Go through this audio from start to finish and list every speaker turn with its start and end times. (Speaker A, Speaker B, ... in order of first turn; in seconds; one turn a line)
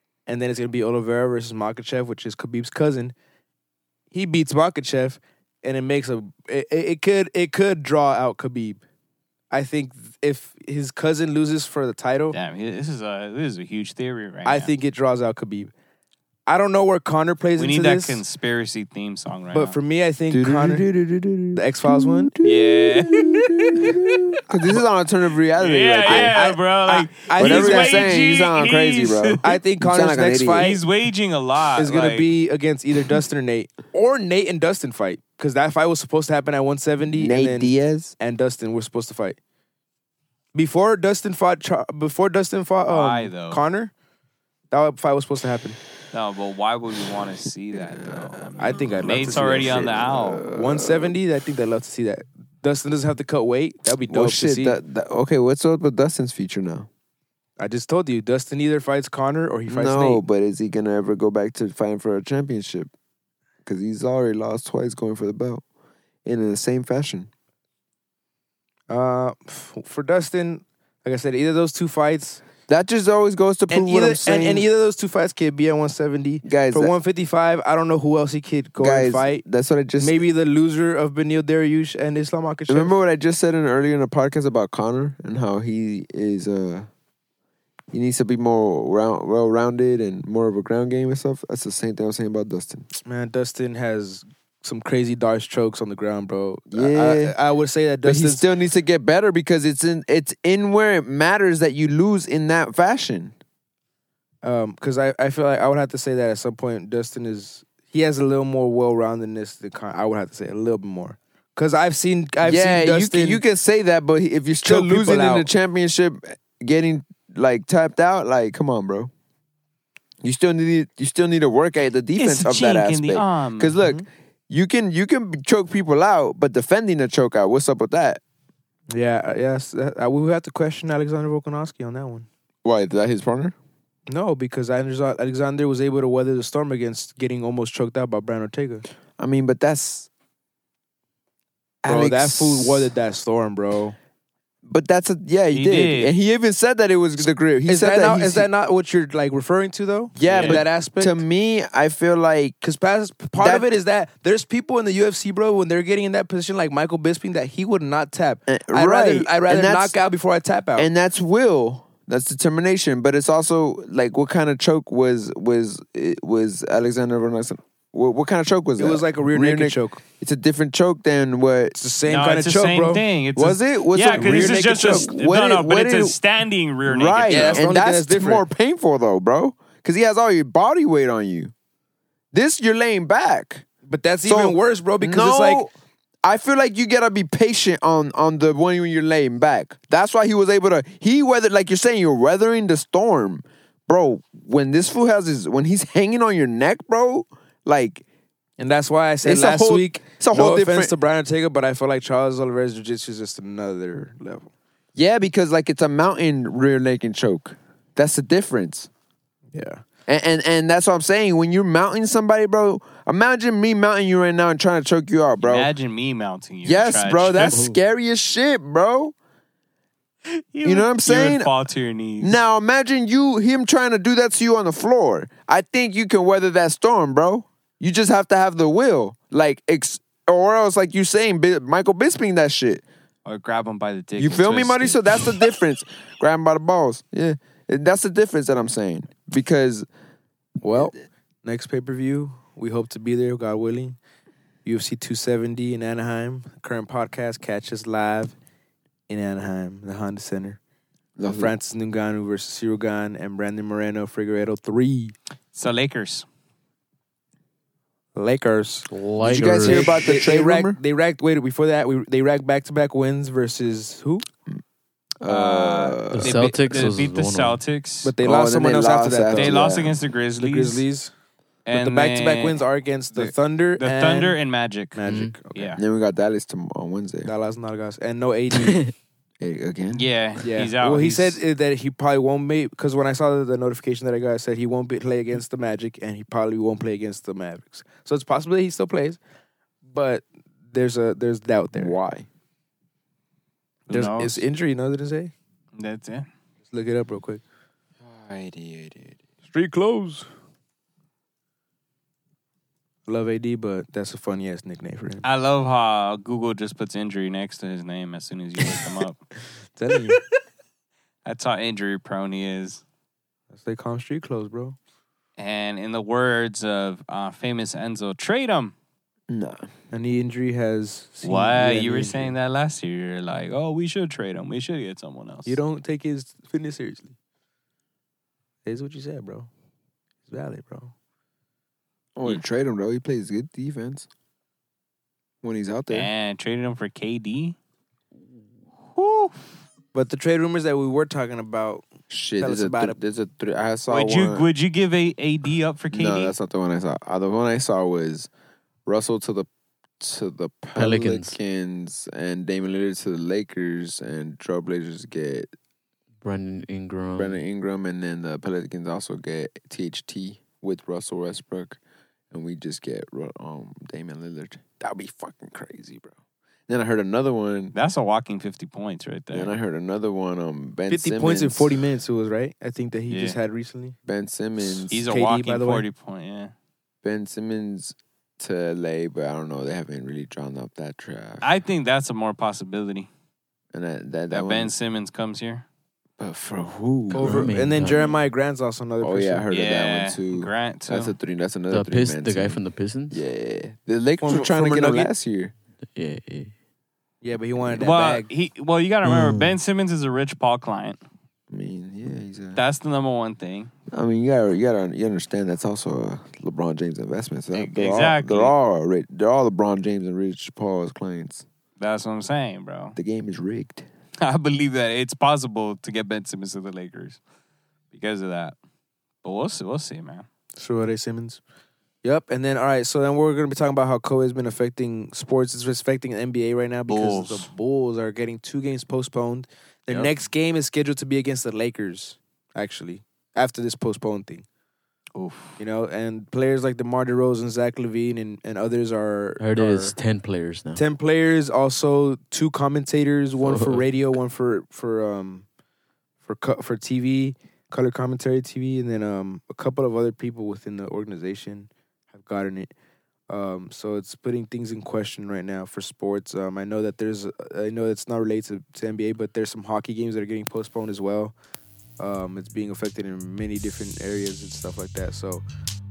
Speaker A: 0.3-3.1
Speaker A: 4.1-8.8
Speaker A: 9.5-12.3
Speaker B: 12.3-14.7
Speaker A: 14.4-15.7
Speaker A: 16.5-18.2
Speaker B: 17.6-19.8
Speaker A: 19.5-20.9
Speaker C: 20.3-26.4
Speaker A: 21.5-22.3
Speaker B: 22.4-24.1
Speaker B: 25.6-29.4
Speaker A: 26.0-28.1
Speaker C: 27.4-30.7
Speaker A: 29.4-30.8
Speaker B: 30.6-32.3
Speaker A: 31.8-39.4
Speaker C: 37.1-38.1
Speaker A: 40.5-43.9
Speaker B: 42.9-43.6
Speaker A: 44.7-45.8
Speaker B: 46.1-50.4
Speaker C: 47.7-51.2
Speaker A: 48.6-49.9
Speaker A: 50.5-54.8
Speaker C: 54.1-56.9
Speaker A: 57.6-60.2
Speaker C: 59.7-62.9
Speaker C: 63.6-65.6
Speaker C: 66.2-67.3
Speaker A: 68.9-72.4
Speaker C: 72.7-74.7
Speaker A: 73.7-79.4
Speaker C: 76.4-76.9
Speaker C: 78.8-80.2
Speaker A: 80.0-83.0
Speaker C: 82.7-86.9
Speaker C: 87.9-92.9
Speaker A: 93.0-98.4
Speaker C: 96.7-97.3
Speaker C: 98.0-103.3
Speaker A: 104.4-113.4
Speaker C: 112.4-119.1
Speaker A: 114.6-115.5
Speaker C: 120.2-128.2
Speaker B: 122.2-123.7
Speaker A: 128.9-132.2
Speaker C: 132.6-133.6
Speaker A: 134.1-138.8
Speaker C: 139.2-140.1
Speaker C: 141.8-142.9
Speaker A: 141.8-143.9
Speaker C: 144.6-148.5
Speaker B: 145.5-146.1
Speaker A: 147.7-151.2
Speaker C: 150.2-152.6
Speaker B: 150.2-150.6
Speaker A: 152.6-160.9
Speaker C: 153.4-153.7
Speaker C: 158.5-159.9
Speaker C: 160.8-171.8
Speaker A: 168.8-170.0
Speaker A: 171.7-173.0
Speaker B: 172.1-177.6
Speaker C: 173.3-176.2
Speaker A: 174.2-175.1
Speaker C: 176.9-181.5
Speaker A: 177.3-178.4
Speaker C: 182.3-183.6
Speaker A: 183.8-185.6
Speaker C: 184.2-185.7
Speaker C: 186.2-198.0
Speaker A: 198.6-204.5
Speaker C: 199.2-200.9
Speaker C: 204.9-208.9
Speaker A: 209.5-209.8
Speaker C: 210.1-215.7
Speaker B: 215.4-217.7
Speaker C: 216.6-219.1
Speaker D: 217.3-217.8
Speaker B: 220.2-222.4
Speaker C: 220.6-221.5
Speaker C: 222.2-232.8
Speaker B: 233.2-235.2
Speaker C: 234.2-239.9
Speaker A: 240.6-244.0
Speaker A: 244.6-248.3
Speaker A: 249.1-250.6
Speaker C: 251.2-251.5
Speaker A: 251.2-255.1
Speaker B: 255.5-256.2
Speaker A: 258.1-264.2
Speaker D: 258.9-259.9
Speaker C: 259.2-260.8
Speaker C: 265.2-266.4
Speaker B: 265.2-268.1
Speaker D: 266.1-267.6
Speaker A: 268.0-269.6
Speaker C: 268.2-269.9
Speaker B: 269.3-270.8
Speaker A: 270.4-271.1
Speaker B: 271.6-272.6
Speaker A: 271.7-274.4
Speaker B: 273.1-275.0
Speaker A: 274.9-275.8
Speaker D: 275.1-275.3
Speaker B: 275.5-275.8
Speaker C: 275.8-277.3
Speaker A: 277.2-278.8
Speaker D: 278.6-278.9
Speaker C: 279.4-280.0
Speaker B: 279.9-281.4
Speaker A: 280.4-289.2
Speaker A: 289.9-291.9
Speaker C: 291.7-292.3
Speaker B: 293.9-294.4
Speaker A: 293.9-295.3
Speaker B: 295.8-296.3
Speaker A: 296.7-297.4
Speaker C: 298.0-299.2
Speaker A: 299.4-300.2
Speaker A: 303.1-305.2
Speaker B: 305.2-309.2
Speaker A: 309.8-310.2
Speaker B: 311.2-312.8
Speaker A: 313.5-314.8
Speaker B: 315.4-318.7
Speaker C: 319.3-319.7
Speaker A: 319.9-322.3
Speaker B: 321.2-325.6
Speaker A: 325.4-327.1
Speaker A: 328.6-329.5
Speaker A: 330.3-330.9
Speaker C: 332.1-334.1
Speaker C: 335.4-336.1
Speaker B: 335.9-337.6
Speaker B: 338.9-339.3
Speaker A: 339.9-341.9
Speaker C: 342.1-344.5
Speaker A: 342.4-343.0
Speaker B: 343.9-346.3
Speaker C: 345.9-348.3
Speaker C: 348.9-349.5
Speaker C: 350.0-355.5
Speaker D: 350.8-351.4
Speaker D: 356.2-357.4
Speaker C: 357.1-361.8
Speaker C: 362.3-366.1
Speaker C: 366.7-367.7
Speaker B: 367.7-369.5
Speaker C: 369.3-371.7
Speaker A: 370.9-373.9
Speaker B: 373.1-373.4
Speaker C: 374.1-374.9
Speaker A: 374.8-375.9
Speaker B: 374.9-376.5
Speaker C: 377.0-381.4
Speaker B: 381.4-383.1
Speaker C: 383.7-384.7
Speaker B: 384.3-385.6
Speaker C: 386.2-387.5
Speaker A: 387.1-389.4
Speaker D: 387.1-388.1
Speaker C: 389.0-392.6
Speaker B: 389.5-391.1
Speaker D: 391.7-393.2
Speaker C: 393.1-395.5
Speaker A: 394.2-395.1
Speaker D: 395.9-396.5
Speaker A: 397.2-398.3
Speaker B: 397.8-401.0
Speaker C: 399.1-399.4
Speaker C: 401.5-402.6
Speaker B: 402.5-403.7
Speaker C: 403.9-411.4
Speaker B: 407.5-408.5
Speaker B: 411.8-413.0
Speaker C: 412.9-413.9
Speaker B: 414.2-417.2
Speaker B: 417.9-418.6
Speaker B: 419.2-420.2
Speaker A: 420.6-421.4
Speaker A: 422.0-434.4
Speaker B: 426.9-427.5
Speaker B: 435.1-435.6
Speaker A: 435.6-439.9
Speaker D: 439.4-440.8
Speaker A: 440.8-445.4
Speaker D: 443.4-443.8
Speaker A: 446.2-452.7
Speaker A: 453.3-461.3
Speaker A: 462.0-465.4